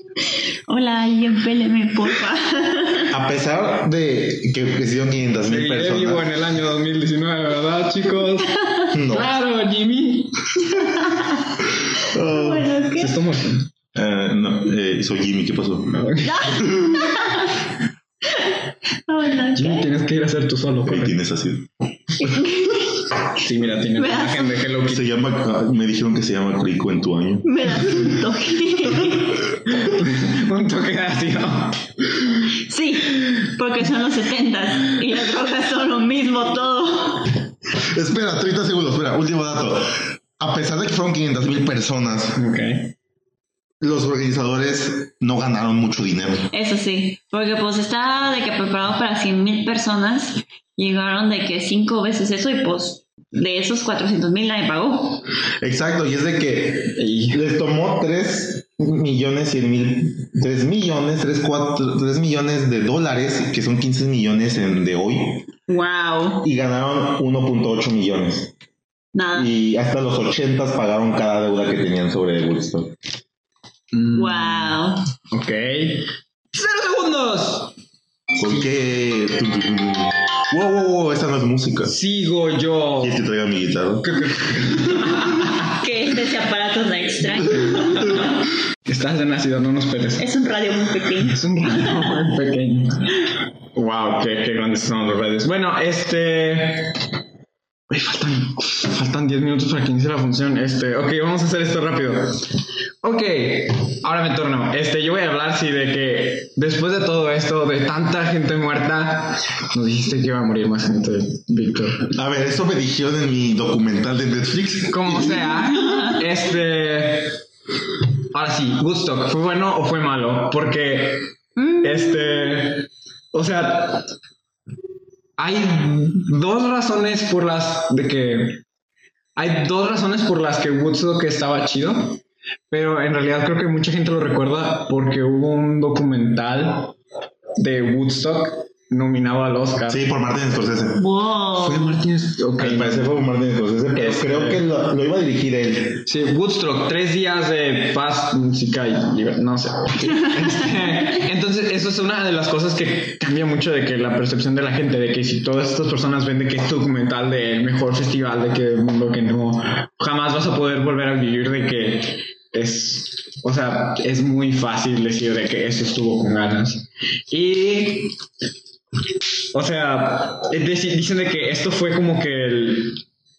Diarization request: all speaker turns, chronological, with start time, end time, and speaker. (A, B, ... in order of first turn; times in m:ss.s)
0:00.7-0:03.1 A
0:03.1-0:06.3 B
0:05.4-0:08.5 C
0:08.5-0:08.9 A
0:08.9-0:09.3 B
0:09.1-0:10.8 C
0:10.7-0:11.4 A
0:12.0-0:13.2 A
0:12.0-0:12.7 B
0:13.0-0:13.7 C
0:13.9-0:16.0 B
0:15.9-0:16.6 C
0:16.2-0:17.6 A
0:16.6-0:17.0 B
0:18.2-0:19.9 A
0:19.5-0:21.2 C
0:20.8-0:21.7 B
0:22.2-0:23.0 A
0:23.4-0:25.1 C
0:23.9-0:24.6 A
0:24.9-0:28.1 B
0:27.4-0:29.5 A
0:29.7-0:31.8 C
0:32.5-0:37.4 A
0:37.7-0:42.4 B
0:42.3-0:42.9 C
0:43.8-0:46.5 B
0:46.5-0:55.2 A
0:55.6-1:05.5 B
0:57.0-0:57.4 C
1:05.7-1:06.4 A
1:06.4-1:08.5 B
1:09.1-1:09.5 A
1:09.3-1:12.9 B
1:13.9-1:17.7 C
1:14.1-1:15.0 A
1:18.4-1:21.9 B
1:21.8-1:23.2 C
1:23.0-1:24.6 B
1:24.0-1:25.7 C
1:25.7-1:28.3 A
1:27.6-1:28.2 C
1:28.8-1:30.3 C
1:30.2-1:32.2 A
1:31.2-1:33.2 C
1:33.7-1:37.0 C
1:37.9-1:42.5 C
1:43.0-1:52.1 C
1:52.1-1:55.5 B
1:54.9-1:57.4 C
1:55.7-1:56.2 A
1:58.3-2:04.1 C
2:01.6-2:02.6 A
2:05.4-2:08.6 C
2:09.4-2:16.9 C
2:17.6-2:20.0 C
2:19.9-2:21.0 B
2:21.0-2:22.0 A
2:21.6-2:23.2 C
2:22.6-2:26.0 B
2:23.9-2:24.6 C
2:26.0-2:48.1 C
2:49.5-2:53.0 C